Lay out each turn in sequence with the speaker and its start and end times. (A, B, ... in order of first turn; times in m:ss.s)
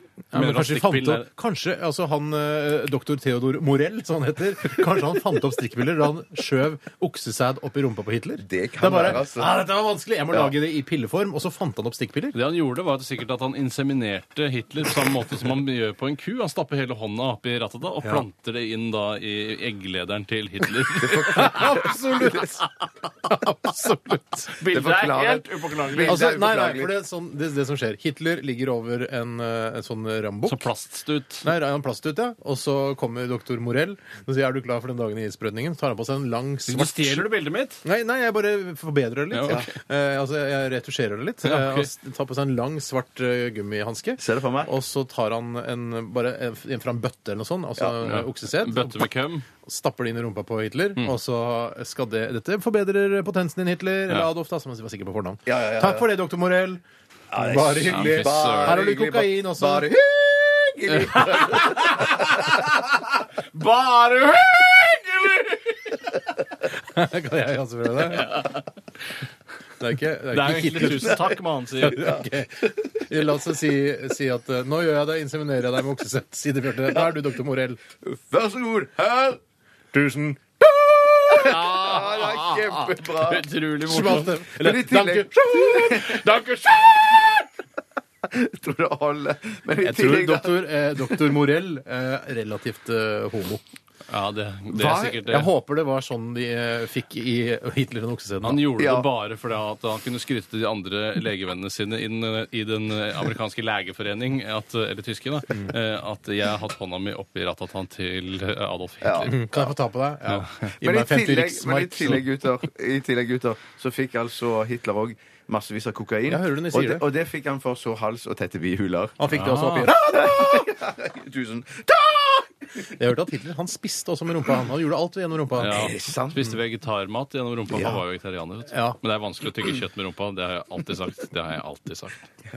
0:00.3-0:12.4 A
0:00.3-0:01.3 B
0:08.4-0:09.5 C
0:12.3-0:21.7 B
0:21.0-0:22.5 C
0:21.2-0:22.6 A
0:23.2-0:24.6 A
0:24.6-0:26.3 B
0:24.6-0:26.9 C
0:26.0-0:30.7 A
0:30.5-0:31.5 B
0:31.4-0:37.3 A
0:36.7-0:37.8 B
0:37.8-0:49.1 A
0:39.3-0:39.7 B
0:41.4-0:41.9 B
0:44.2-0:44.7 C
0:48.0-0:49.4 B
0:49.6-0:56.8 A
0:55.5-0:56.1 C
0:57.3-1:03.0 C
0:57.3-0:59.9 A
0:57.9-0:58.8 B
1:01.1-1:02.6 A
1:06.7-1:08.5 A
1:08.1-1:08.6 B
1:09.8-1:17.8 A
1:10.3-1:12.1 B
1:12.0-1:12.2 C
1:18.0-1:19.4 C
1:19.9-1:20.4 A
1:20.6-1:23.5 C
1:21.3-1:22.4 A
1:21.8-1:24.4 B
1:23.8-1:26.7 A
1:24.6-1:27.4 C
1:28.2-1:31.3 C
1:29.8-1:33.6 A
1:34.1-1:35.5 B
1:34.7-1:35.3 C
1:35.2-1:38.6 A
1:38.4-1:49.3 B
1:38.7-1:39.1 C
1:49.0-1:49.7 C
1:49.2-1:52.2 A
1:50.8-1:59.2 C
1:56.3-1:57.0 A
1:59.2-2:00.7 A
1:59.3-1:59.9 B
1:59.8-2:02.5 C
2:02.9-2:06.5 A
2:05.6-2:12.3 B
2:05.7-2:06.4 C
2:07.7-2:08.0 C
2:08.7-2:09.0 A